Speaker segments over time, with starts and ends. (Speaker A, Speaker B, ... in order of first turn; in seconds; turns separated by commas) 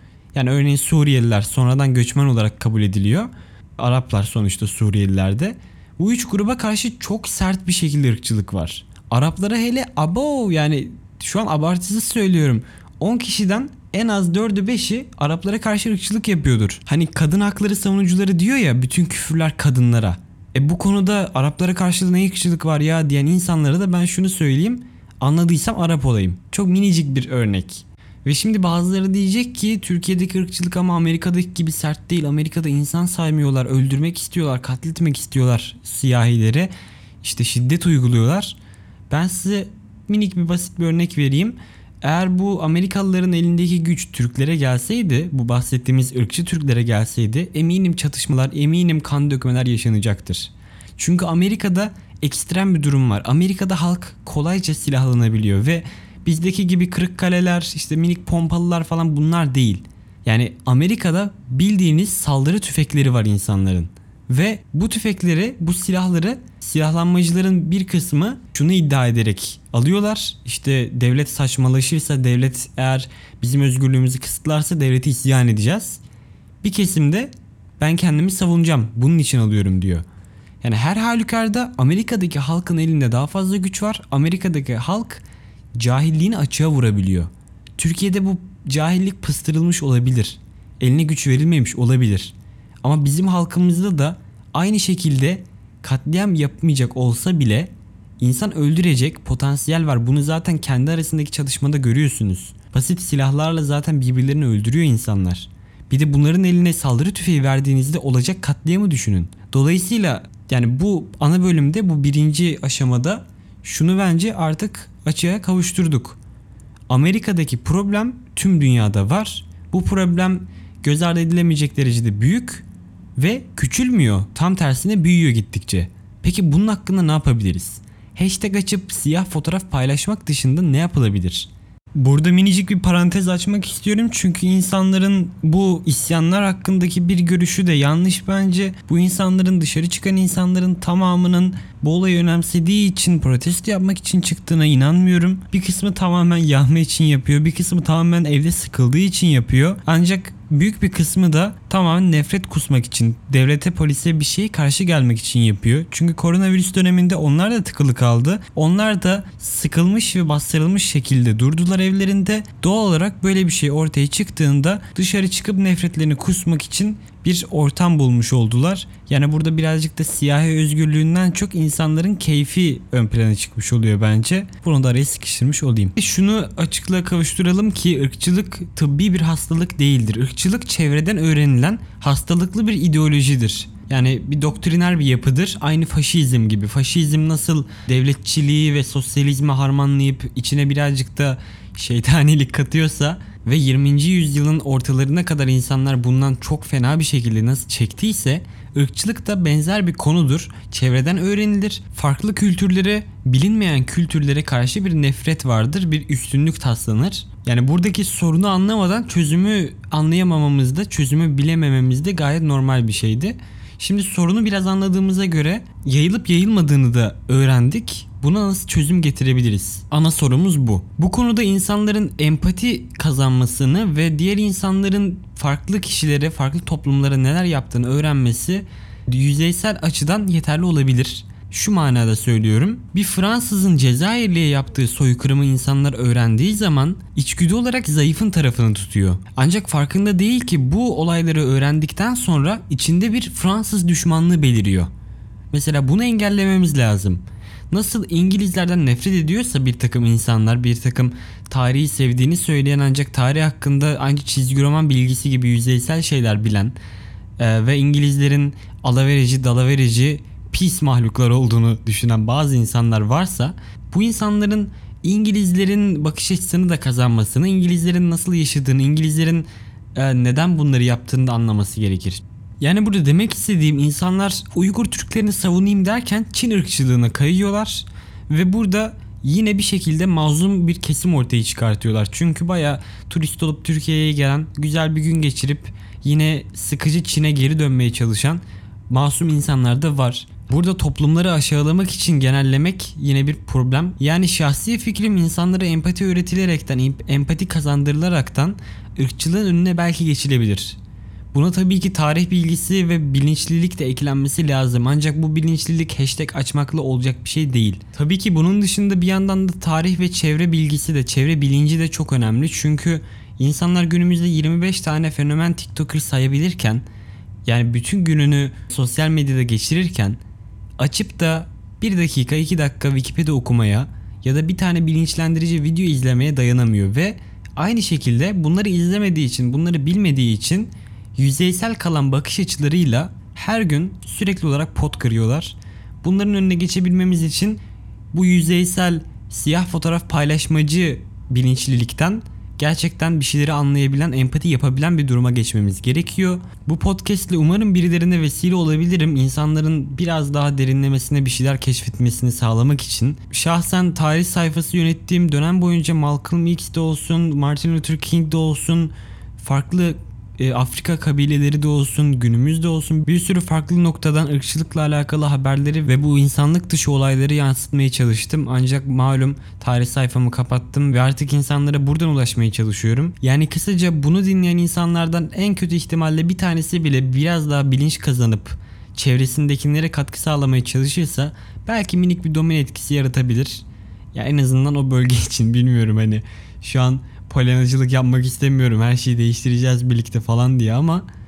Speaker A: 0.3-38.6, Speaker A: 39.1-76.0, Speaker A: 76.6-80.0, Speaker A: 80.6-85.2, Speaker A: 85.8-116.2, Speaker A: 116.9-244.9, Speaker A: 245.5-256.8, Speaker A: 257.4-300.8, Speaker A: 301.3-316.9, Speaker A: 317.4-320.2, Speaker A: 320.8-337.6, Speaker A: 338.1-391.1